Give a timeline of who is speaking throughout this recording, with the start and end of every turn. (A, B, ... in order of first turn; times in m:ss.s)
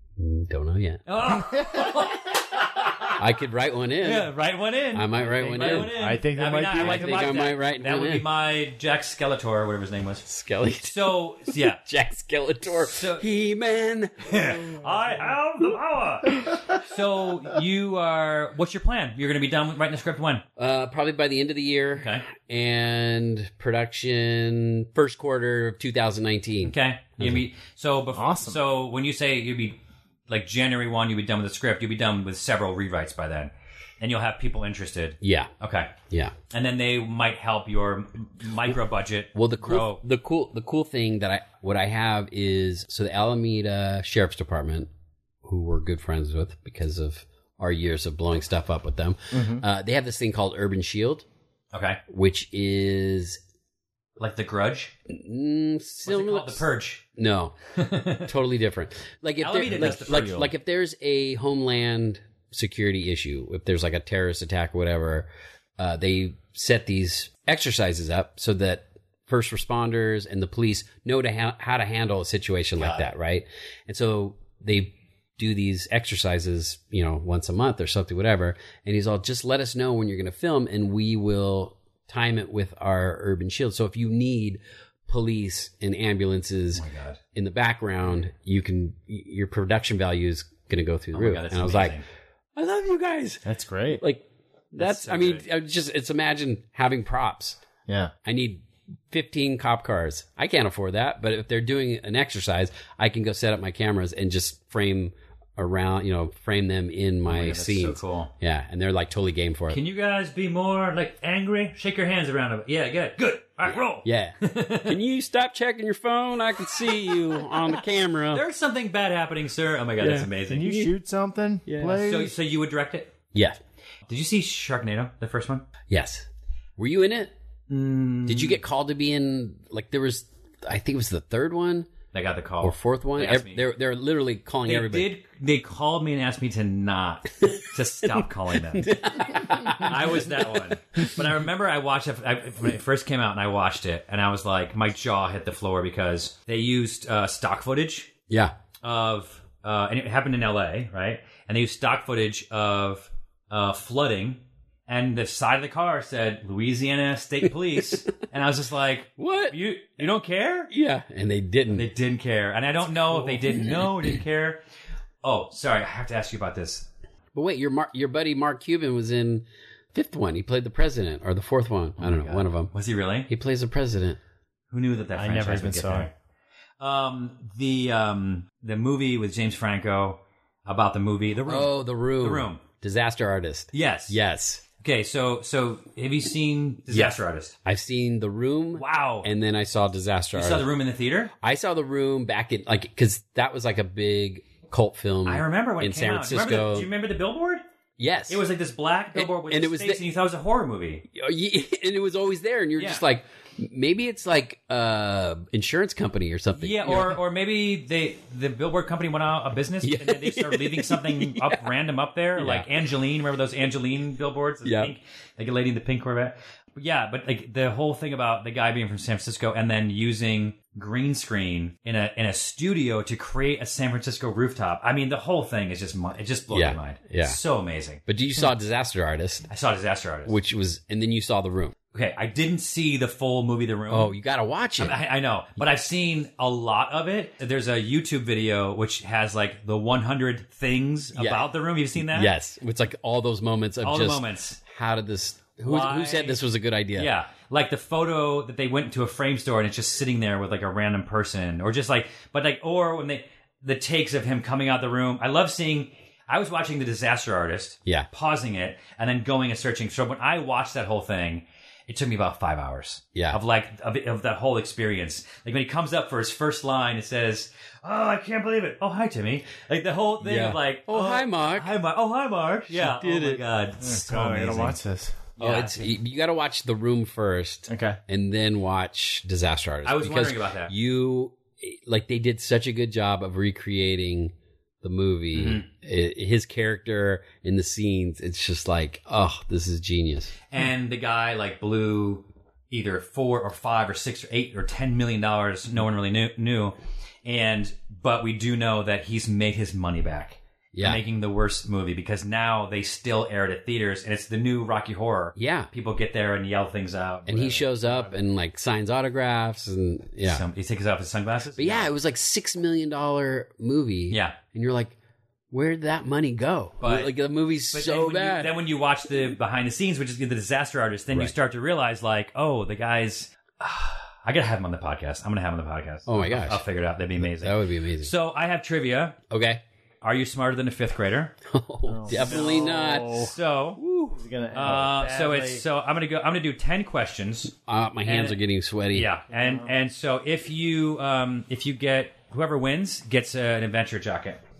0:00.2-0:01.0 A
0:01.1-0:03.2 B
0:03.2-0:04.3 A
0:04.0-0:10.2 B
0:04.9-0:06.0 A
0:05.4-0:07.5 C
0:06.7-0:08.2 A
0:10.2-0:14.8 A
0:10.8-0:11.8 B
0:12.8-0:13.2 B
0:14.2-0:20.4 B
0:20.6-0:27.4 A
0:22.0-0:22.3 B
0:26.6-0:36.0 B
0:28.1-0:28.6 C
0:35.2-0:35.5 A
0:36.0-0:36.3 A
0:36.5-0:40.0 B
0:39.3-0:44.9 A
0:45.4-0:51.2 A
0:49.3-0:49.6 C
0:51.7-0:52.0 B
0:52.1-0:53.4 A
0:54.2-0:54.9 B
0:55.1-0:57.5 A
0:56.0-0:57.0 B
0:57.8-0:58.3 B
0:58.2-1:32.0 A
0:59.4-1:00.5 B
1:12.8-1:13.1 B
1:26.7-1:27.2 B
1:31.1-1:32.0 B
1:32.6-1:37.6 A
1:33.4-1:34.0 C
1:34.8-1:35.4 B
1:37.9-1:38.1 C
1:38.2-1:49.8 A
1:47.2-1:48.3 B
1:49.7-1:55.0 B
1:53.6-1:58.4 A
1:56.9-1:57.8 B
1:58.3-2:00.6 B
2:00.0-2:00.9 A
2:00.4-2:02.3 C
2:01.6-2:02.0 A
2:02.0-2:03.1 B
2:03.3-2:03.6 A
2:04.1-2:05.7 B
2:05.9-2:07.3 A
2:07.7-2:08.6 B
2:08.2-2:11.9 A
2:12.1-2:13.6 B
2:12.6-2:15.1 A
2:14.6-2:28.1 B
2:18.0-2:21.1 A
2:28.3-2:28.6 A
2:28.8-2:40.7 B
2:39.2-2:39.6 A
2:40.7-2:41.9 A
2:41.7-2:44.6 B
2:43.1-2:44.1 A
2:45.2-2:46.9 B
2:47.3-2:52.7 A
2:52.0-2:53.3 B
2:53.3-2:54.2 A
2:54.7-2:56.1 B
2:55.1-2:56.1 C
2:56.8-3:02.6 B
3:01.4-3:04.6 A
3:03.7-3:04.2 B
3:04.8-3:07.5 B
3:06.9-3:10.7 A
3:08.8-3:09.3 B
3:10.3-3:11.3 B
3:11.4-3:16.9 A
3:15.2-3:17.6 B
3:18.0-3:18.4 A
3:18.3-3:21.0 B
3:19.1-3:20.0 A
3:21.1-3:27.2 A
3:22.8-3:23.0 B
3:26.5-3:48.0 B
3:29.8-3:31.6 A
3:32.4-3:32.7 A
3:34.6-3:34.9 A
3:46.5-3:47.4 A
3:48.0-3:49.5 A
3:49.5-3:50.3 B
3:50.2-3:51.8 A
3:51.9-3:54.1 B
3:53.9-3:55.0 A
3:54.8-4:02.3 B
4:01.1-4:07.1 A
4:03.8-4:04.6 B
4:05.6-4:06.4 B
4:07.0-4:34.8 B
4:23.1-4:23.4 A
4:30.2-4:31.7 A
4:32.7-4:33.4 A
4:33.8-4:35.3 C
4:35.4-4:35.9 B
4:35.4-4:50.4 A
4:37.7-4:38.0 C
4:39.8-4:40.7 B
4:45.3-4:45.7 B
4:50.5-5:07.6 B
5:00.7-5:01.0 A
5:05.4-5:05.7 A
5:07.3-5:10.4 A
5:07.4-5:08.2 C
5:10.2-5:11.9 B
5:11.6-5:14.9 A
5:14.1-5:14.4 B
5:15.5-5:18.5 A
5:16.8-5:17.1 B
5:17.7-5:29.2 B
5:26.0-5:26.6 A
5:27.2-5:28.1 A
5:29.3-5:29.6 A
5:30.0-5:31.3 B
5:31.4-5:33.2 A
5:31.9-5:35.6 C
5:32.2-5:32.5 B
5:33.1-5:33.8 B
5:34.5-5:38.4 B
5:37.6-5:39.1 A
5:38.9-5:44.4 B
5:39.3-5:39.7 C